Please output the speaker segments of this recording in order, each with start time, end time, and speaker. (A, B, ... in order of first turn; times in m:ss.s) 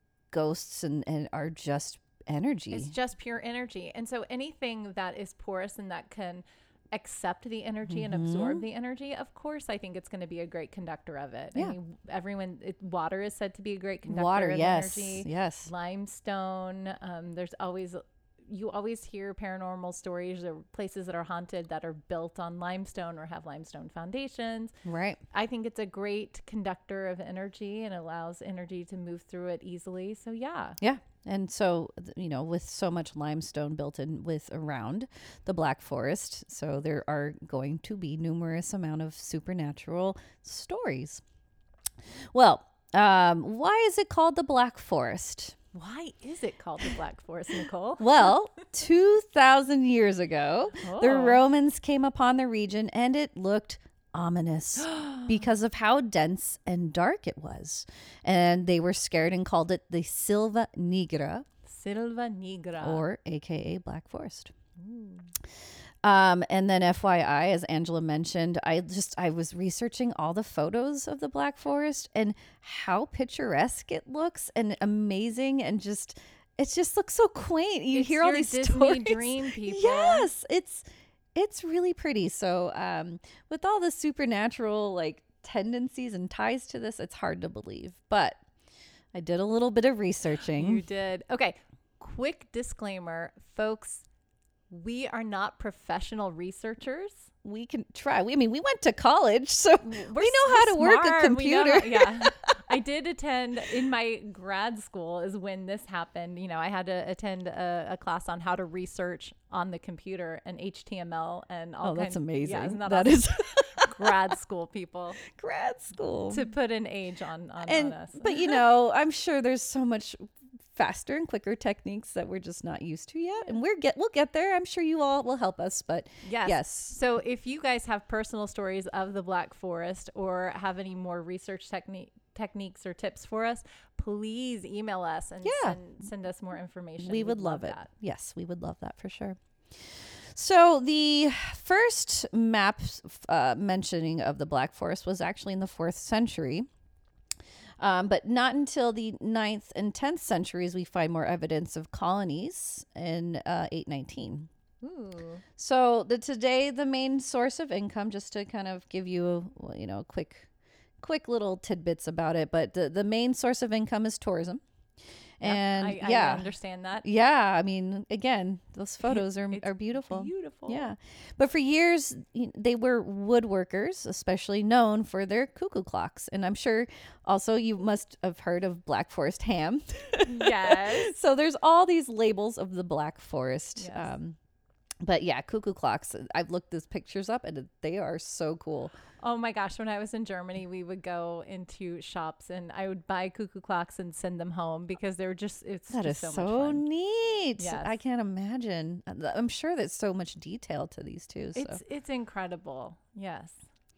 0:00.3-0:02.9 A
0:02.7-0:24.7 B
0:07.9-0:08.6 A
0:14.1-0:15.7 A
0:24.8-0:25.2 A
0:25.3-0:30.8 B
0:30.8-0:41.2 A
0:42.3-0:45.6 A
0:45.7-0:48.3 B
0:48.0-1:01.4 A
0:50.8-0:51.4 B
0:54.9-0:55.2 B
1:01.6-1:03.0 B
1:02.8-1:04.5 A
1:04.8-1:05.3 B
1:06.0-1:28.4 A
1:17.9-1:20.3 B
1:29.1-1:30.8 A
1:30.6-1:34.0 B
1:34.7-1:37.3 B
1:37.4-1:42.5 A
1:39.8-1:55.2 B
1:51.8-1:54.2 A
1:55.2-1:56.5 A
1:56.3-1:58.6 B
1:57.6-2:07.0 A
2:06.2-2:17.9 B
2:15.4-2:15.8 A
2:17.0-2:26.7 A
2:27.8-2:34.5 A
2:34.8-2:35.4 B
2:35.6-2:40.5 A
2:41.0-2:44.6 A
2:45.4-2:46.5 A
2:45.4-2:47.0 B
2:47.0-3:04.4 A
2:49.0-2:50.9 B
3:00.2-3:01.2 B
3:03.8-3:04.1 B
3:05.0-3:08.9 A
3:09.2-3:16.8 B
3:15.9-3:21.8 A
3:17.6-3:17.9 B
3:21.5-3:23.6 B